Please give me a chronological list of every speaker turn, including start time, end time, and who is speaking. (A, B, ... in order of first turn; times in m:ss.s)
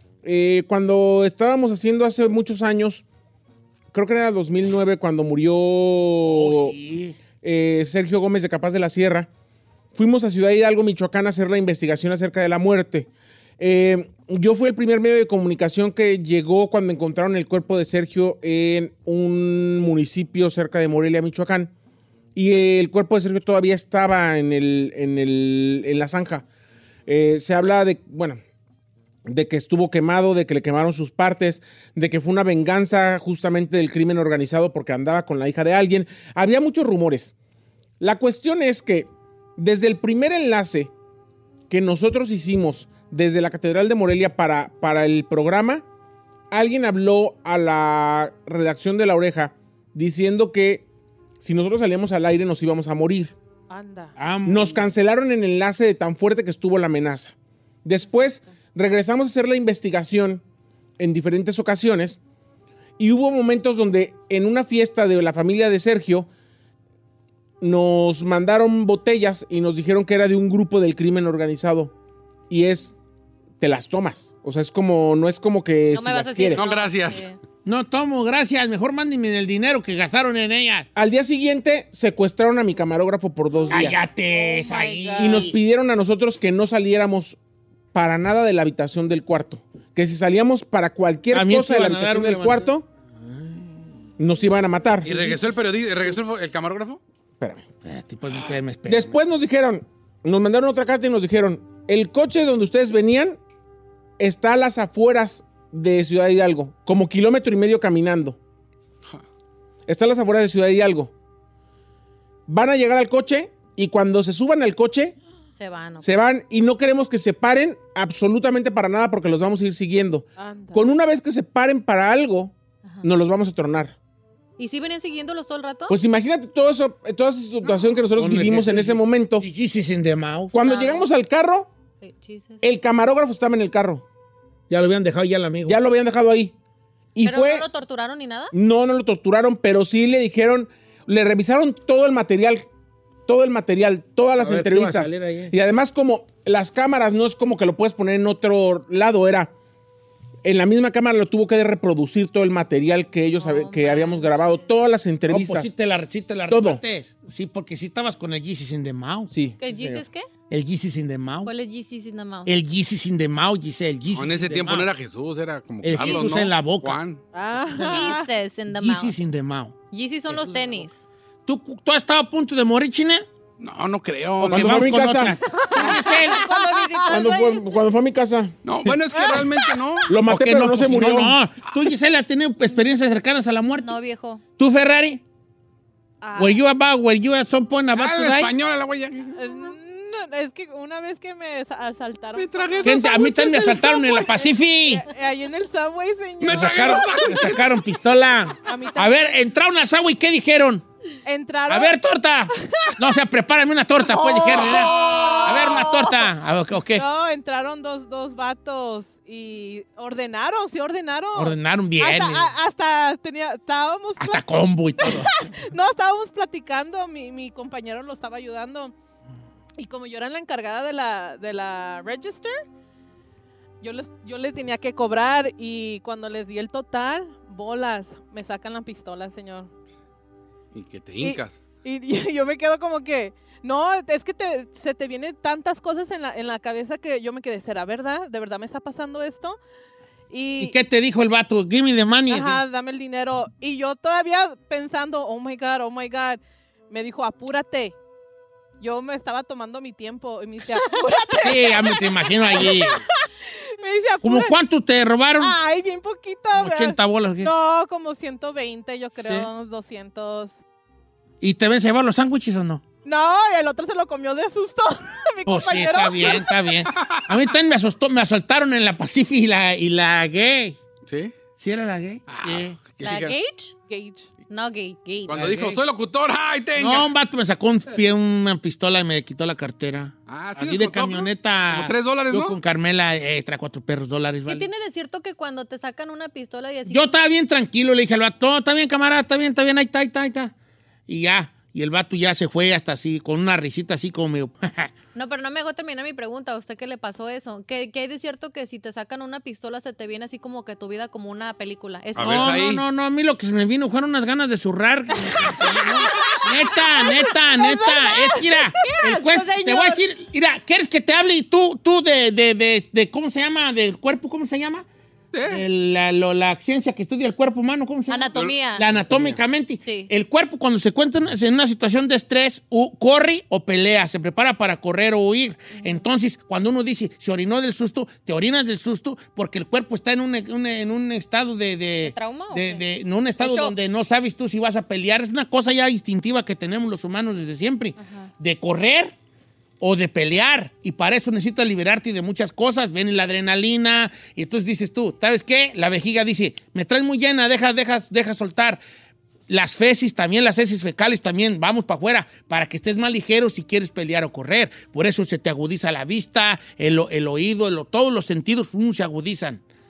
0:00.2-0:03.0 A
0:03.9-0:06.7 A
0:06.2-0:07.2 B
0:07.4-0:09.3 A
0:09.9-0:21.7 A
0:22.3-0:26.4 A
0:27.1-0:28.4 A
0:29.2-0:37.3 A
0:38.0-0:40.9 A
0:41.7-0:45.8 A
0:46.5-0:50.8 A
0:51.4-0:53.3 A
0:53.7-0:54.1 C
0:54.2-0:54.9 B
0:54.4-1:00.4 A
1:01.0-1:02.2 A
1:03.0-1:06.3 A
1:07.6-1:11.9 A
1:12.5-1:12.9 A
1:13.6-1:16.6 A
1:15.9-1:17.4 D
1:16.6-1:17.2 E
1:17.6-1:20.9 B
1:20.9-1:24.0 A
1:23.7-1:25.6 B
1:23.8-1:25.4 C
1:24.7-1:25.2 D
1:25.2-1:27.4 A
1:27.9-1:32.8 A
1:31.3-1:33.9 B
1:34.2-1:35.1 A
1:35.0-1:37.0 E
1:37.8-1:39.2 B
1:38.9-1:43.4 A
1:44.2-1:48.4 A
1:49.9-1:51.1 A
1:52.5-1:55.2 A
1:55.6-1:56.1 D
1:56.0-2:04.0 A
2:00.4-2:00.9 C
2:04.6-2:06.0 D
2:05.9-2:09.5 A
2:08.2-2:10.5 B
2:10.5-2:11.7 A
2:10.6-2:11.1 D
2:12.0-2:12.6 D
2:12.6-2:14.0 A
2:14.7-2:15.8 B
2:15.6-2:16.5 A
2:17.1-2:17.6 A
2:17.2-2:18.5 D
2:18.5-2:22.6 A
2:23.3-2:29.5 A
2:24.4-2:25.5 B
2:30.4-2:35.7 A
2:33.4-2:34.7 D
2:35.3-2:39.3 B
2:36.5-2:36.8 A
2:39.3-2:40.0 A
2:39.6-2:40.3 D
2:40.5-2:41.5 B
2:41.4-2:42.5 D
2:42.4-2:44.9 B
2:44.1-2:47.2 E
2:45.8-2:47.0 B
2:47.3-2:48.3 C
2:47.8-2:48.1 B
2:47.8-2:49.1 D
2:48.7-2:49.7 B
2:49.9-2:51.0 D
2:51.4-2:53.2 B
2:53.6-2:54.6 E
2:54.4-2:55.4 A
2:54.4-2:56.5 B
2:55.7-2:57.6 D
2:55.7-2:57.4 C
2:57.1-2:58.6 A
2:58.6-3:00.1 E
2:59.1-2:59.8 C
3:00.1-3:01.4 A
3:00.2-3:03.9 B
3:03.8-3:04.4 D
3:04.6-3:05.2 B
3:06.2-3:06.6 C
3:06.4-3:08.5 B
3:08.0-3:09.4 E
3:09.3-3:17.5 C
3:12.3-3:13.1 E
3:12.8-3:15.0 B
3:16.4-3:17.7 E
3:16.4-3:20.8 B
3:18.6-3:19.2 C
3:21.2-3:22.0 C
3:21.7-3:27.1 B
3:22.6-3:23.0 C
3:24.2-3:26.1 D
3:24.6-3:26.2 C
3:24.8-3:25.5 E
3:26.9-3:34.4 C
3:31.3-3:32.5 B
3:34.2-3:35.4 B
3:35.0-3:38.9 C
3:39.8-3:42.6 C
3:43.8-3:49.7 C
3:50.7-3:51.6 E
3:51.2-3:59.6 C
4:00.3-4:00.7 C
4:00.6-4:02.6 B
4:02.3-4:08.0 C
4:08.8-4:13.2 C
4:11.4-4:13.0 B
4:13.8-4:14.5 C
4:14.2-4:15.6 B
4:15.4-4:20.6 C
4:16.5-4:17.5 B
4:19.1-4:19.5 B
4:21.4-4:22.8 B
4:23.0-4:26.6 C
4:25.4-4:30.8 B
4:26.9-4:27.4 E
4:31.0-4:31.4 E
4:31.6-4:32.8 B
4:32.3-4:33.4 E
4:33.0-4:33.7 D
4:33.9-4:34.3 C
4:34.5-4:35.5 D
4:35.3-4:37.1 E
4:35.3-4:35.8 B
4:36.8-4:44.7 B
4:40.3-4:42.6 E
4:44.5-4:47.1 D
4:46.9-4:50.5 B
4:51.1-4:54.9 B
4:55.1-5:02.6 D
5:02.1-5:02.8 E
5:02.2-5:14.8 B
5:05.3-5:08.7 C
5:08.8-5:10.0 D
5:15.3-5:15.6 E
5:15.4-5:39.1 B
5:18.1-5:18.8 D
5:18.3-5:19.4 E
5:19.8-5:20.1 D
5:25.8-5:26.0 D
5:32.0-5:32.8 D
5:33.4-5:33.7 D
5:38.0-5:38.3 D
5:39.8-5:48.8 B
5:49.5-5:59.6 B